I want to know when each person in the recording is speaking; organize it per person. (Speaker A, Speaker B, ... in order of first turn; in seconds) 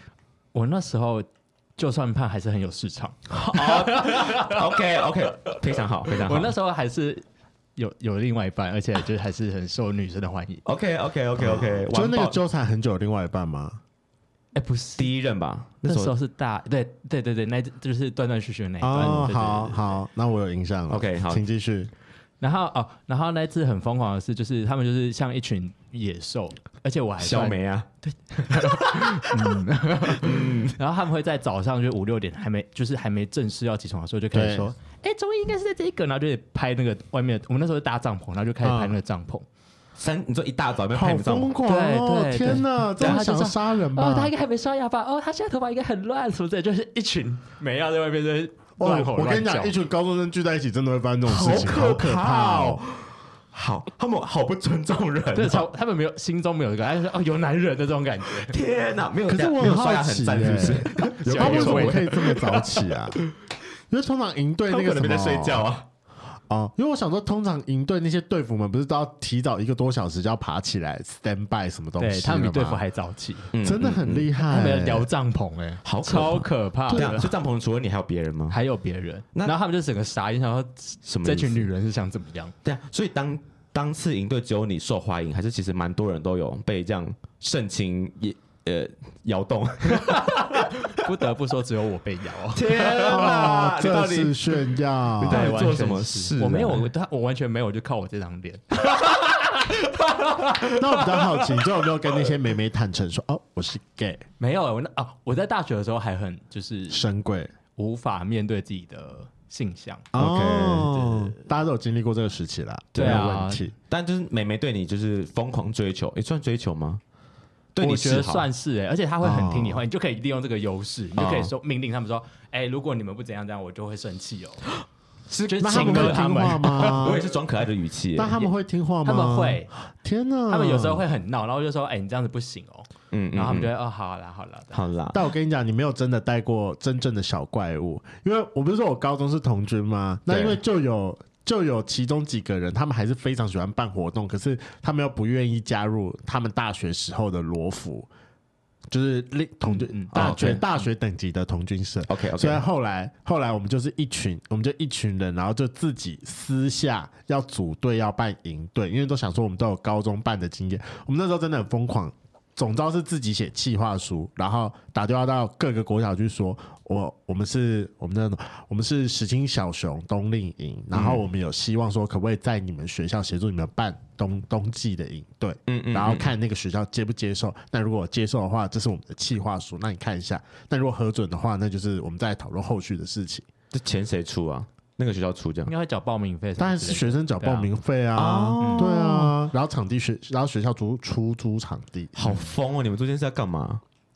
Speaker A: 0.5-4.7, 6.1-7.2, 7.8-10.6, 14.5-15.1, 15.8-20.0, 22.4-39.5, 41.6-49.8, 55.3-58.5, 60.9-62.6, 72.0-73.5, 74.4-77.3, 78.5-82.5, 90.0-93.4, 95.2-101.7, 104.4-107.0, 107.8-111.4, 113.0-113.6, 117.8-124.7, 125.5-127.3, 129.0-129.7, 130.5-134.8, 149.7-150.8, 185.7-187.7, 188.6-189.2
Speaker B: 3.3-6.5, 10.6-12.4, 15.0-16.1, 20.9-21.4, 27.2-27.9, 28.5-29.5, 30.2-30.8, 40.0-41.6, 51.2-55.7, 58.4-62.4, 64.7-65.9, 73.5-74.3, 75.8-78.6, 81.0-81.7, 82.6-91.1, 92.5-96.9, 110.2-110.8, 112.9-113.3, 113.9-117.0, 117.7-118.5, 121.2-121.5, 125.3-128.5, 133.1-133.7, 134.7-135.2, 140.3-140.6, 150.1-150.6, 152.1-152.6, 170.9-171.2, 175.7-176.3, 183.7-185.7, 188.2-189.3, 192.1-193.8
Speaker C: 11.4-13.8, 18.8-21.9, 34.3-34.7, 38.6-38.9, 40.9-44.3, 48.8-52.8, 59.3-63.2, 63.9-65.6, 66.5-72.8, 73.6-75.1, 76.9-77.2, 93.0-95.5, 100.7-104.2, 106.9-107.5, 110.1-113.7, 119.2-119.8, 125.6-127.2, 128.2-131.0, 135.1-148.1, 148.9-183.5, 186.6-192.4